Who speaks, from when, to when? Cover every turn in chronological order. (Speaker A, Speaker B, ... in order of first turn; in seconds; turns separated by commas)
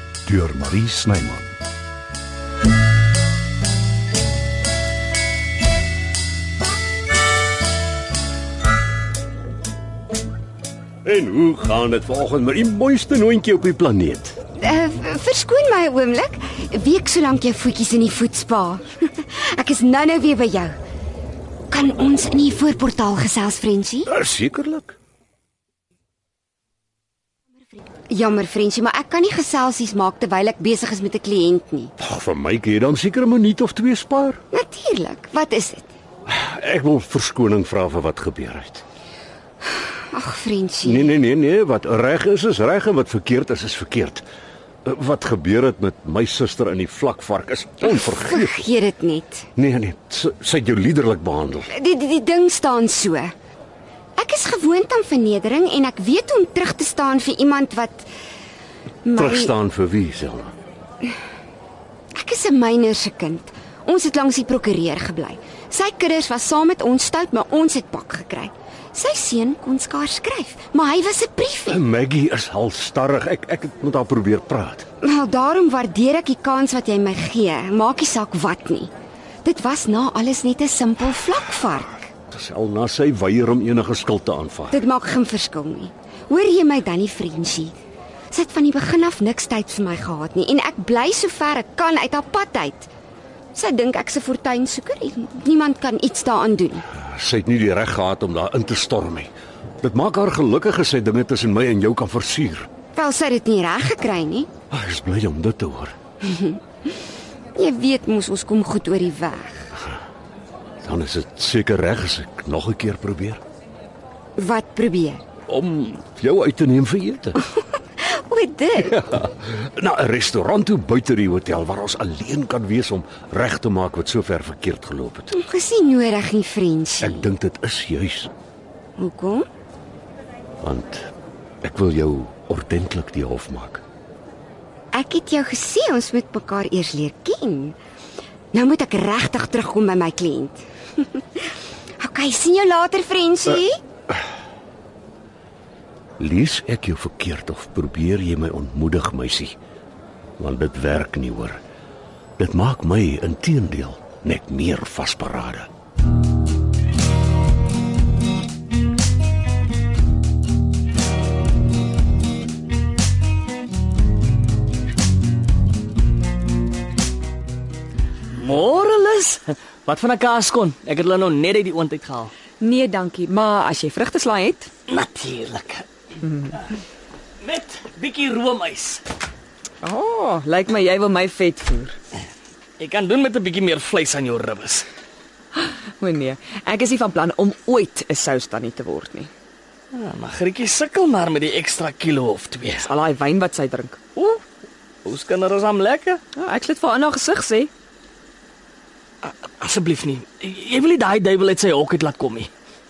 Speaker A: 0.2-1.5, Speaker A: 11.1-14.4, Speaker B: 14.6-20.8, Speaker B: 21.7-24.1, Speaker A: 24.1-25.0, Speaker B: 28.1-31.9, Speaker A: 32.0-34.4, Speaker B: 34.5-35.9, Speaker A: 36.3-38.8, Speaker B: 40.1-41.2, Speaker A: 40.9-44.3, Speaker A: 44.9-48.4, Speaker B: 47.9-49.5, Speaker A: 49.6-51.7, Speaker B: 51.7-53.3, Speaker B: 54.2-58.1, Speaker B: 59.0-59.5, Speaker A: 59.2-60.5, Speaker B: 62.1-71.8, Speaker A: 71.7-74.9, Speaker B: 75.0-78.9, Speaker B: 79.4-82.1, Speaker A: 82.3-84.8, Speaker B: 84.7-87.8, Speaker B: 88.3-92.9, Speaker B: 93.5-96.9, Speaker A: 97.0-99.3, Speaker A: 99.8-102.7, Speaker B: 103.0-104.5, Speaker A: 104.7-105.9, Speaker B: 106.2-106.6, Speaker B: 107.6-109.7, Speaker A: 110.8-113.4, Speaker B: 114.4-115.2, Speaker A: 115.5-117.4, Speaker B: 117.5-119.1, Speaker A: 119.4-125.3, Speaker B: 125.3-127.3, Speaker A: 127.1-128.3, Speaker B: 129.0-129.5, Speaker A: 130.6-131.1, Speaker A: 131.6-133.8, Speaker B: 134.9-137.8, Speaker B: 138.5-143.8, Speaker A: 146.2-149.6, Speaker A: 150.4-151.6, Speaker A: 152.4-155.7, Speaker C: 168.4-172.3, Speaker D: 172.6-174.7, Speaker C: 174.9-175.9, Speaker D: 176.3-176.5, Speaker C: 177.4-179.0, Speaker D: 179.8-182.0, Speaker C: 182.8-184.9, Speaker D: 185.6-189.3, Speaker C: 189.9-192.9, Speaker D: 192.8-194.0, Speaker C: 194.2-194.4, Speaker C: 195.0-196.2, Speaker D: 196.3-197.7, Speaker C: 199.2-202.5